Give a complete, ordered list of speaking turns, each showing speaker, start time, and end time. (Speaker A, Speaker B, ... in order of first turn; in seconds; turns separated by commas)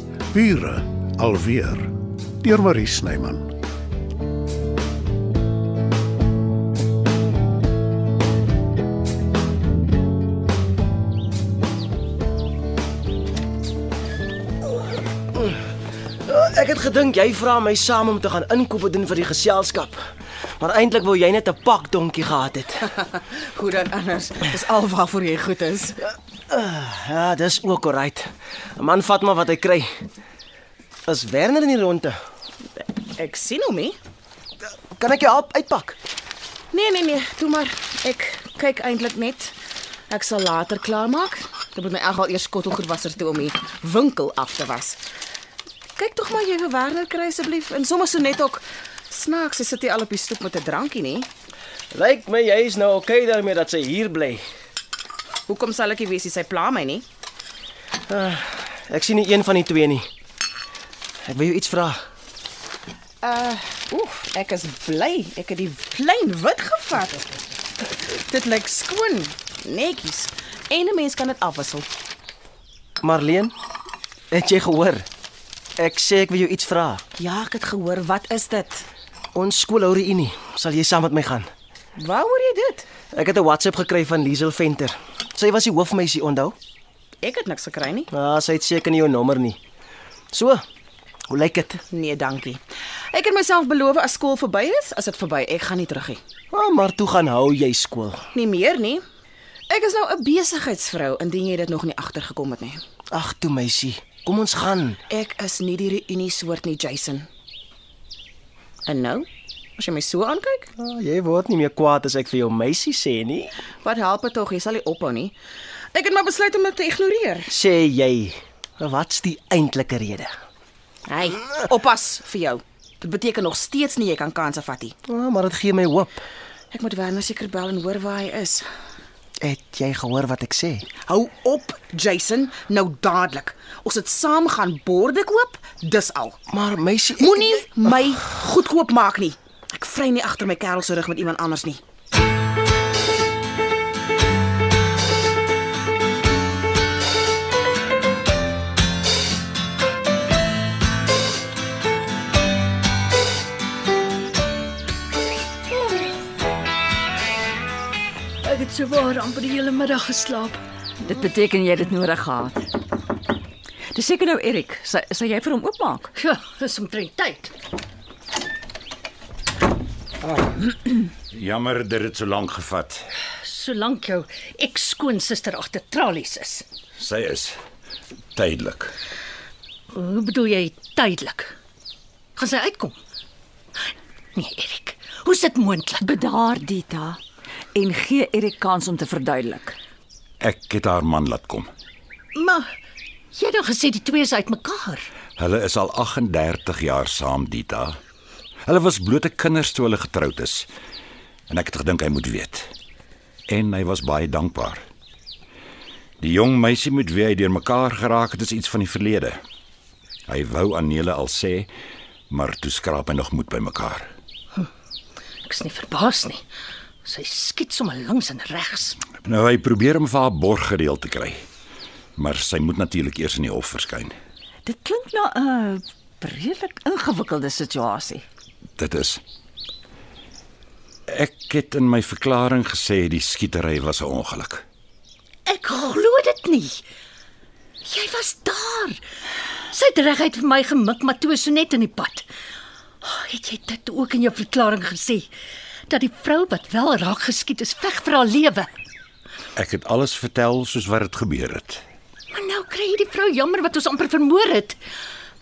Speaker A: 0.3-3.5, Speaker B: 15.3-15.6, Speaker B: 16.3-20.1, Speaker B: 20.6-22.9, Speaker C: 22.9-26.0, Speaker B: 26.5-29.9, Speaker B: 31.1-32.2, Speaker C: 32.8-34.0, Speaker B: 34.9-36.0, Speaker C: 36.7-39.5, Speaker C: 40.1-45.0, Speaker C: 46.0-51.3, Speaker B: 51.9-54.4, Speaker C: 55.5-57.0, Speaker B: 58.1-60.1, Speaker B: 61.2-62.0, Speaker C: 63.2-71.8, Speaker B: 73.0-73.5, Speaker B: 74.3-75.0, Speaker B: 75.8-77.0, Speaker C: 77.2-78.8, Speaker B: 79.3-81.5, Speaker C: 82.0-82.8, Speaker B: 83.1-86.5, Speaker C: 87.2-88.1, Speaker B: 88.1-89.6, Speaker B: 90.3-90.6, Speaker B: 91.3-91.8, Speaker C: 91.9-92.6, Speaker C: 93.1-96.2, Speaker B: 96.5-98.2, Speaker C: 98.3-99.0, Speaker C: 99.7-102.8, Speaker B: 103.1-105.0, Speaker C: 105.1-107.3, Speaker C: 108.8-109.2, Speaker C: 109.8-110.7, Speaker B: 110.8-113.5, Speaker C: 113.8-115.3, Speaker C: 115.9-117.5, Speaker B: 117.5-120.3, Speaker C: 121.1-124.9, Speaker B: 125.1-126.2, Speaker C: 126.7-128.6, Speaker B: 129.4-130.9, Speaker C: 131.1-136.4, Speaker B: 136.5-137.5, Speaker C: 137.2-141.8, Speaker D: 158.4-160.6, Speaker E: 161.0-162.7, Speaker E: 163.9-166.1, Speaker D: 166.2-167.5, Speaker F: 171.3-173.1, Speaker D: 173.4-176.6, Speaker F: 177.0-177.6, Speaker F: 178.3-178.9, Speaker D: 179.9-181.5, Speaker D: 182.3-183.0, Speaker D: 184.3-186.0, Speaker E: 186.0-187.2, Speaker E: 187.7-189.8, Speaker F: 190.4-191.7, Speaker D: 192.3-192.7, Speaker D: 193.3-195.1, Speaker F: 195.4-198.0, Speaker F: 198.7-200.7, Speaker F: 201.5-202.7, Speaker F: 203.5-204.8, Speaker F: 206.2-209.4, Speaker F: 210.3-211.7, Speaker F: 212.3-214.1, Speaker D: 215.4-216.4, Speaker D: 217.0-219.0, Speaker F: 219.2-221.4, Speaker F: 222.2-224.1, Speaker E: 224.7-228.2, Speaker F: 228.8-229.2, Speaker F: 231.1-234.6, Speaker D: 235.4-236.8, Speaker D: 237.8-239.0, Speaker D: 239.7-242.3, Speaker D: 243.0-245.3, Speaker D: 245.9-248.7, Speaker F: 249.6-251.8, Speaker D: 252.3-254.8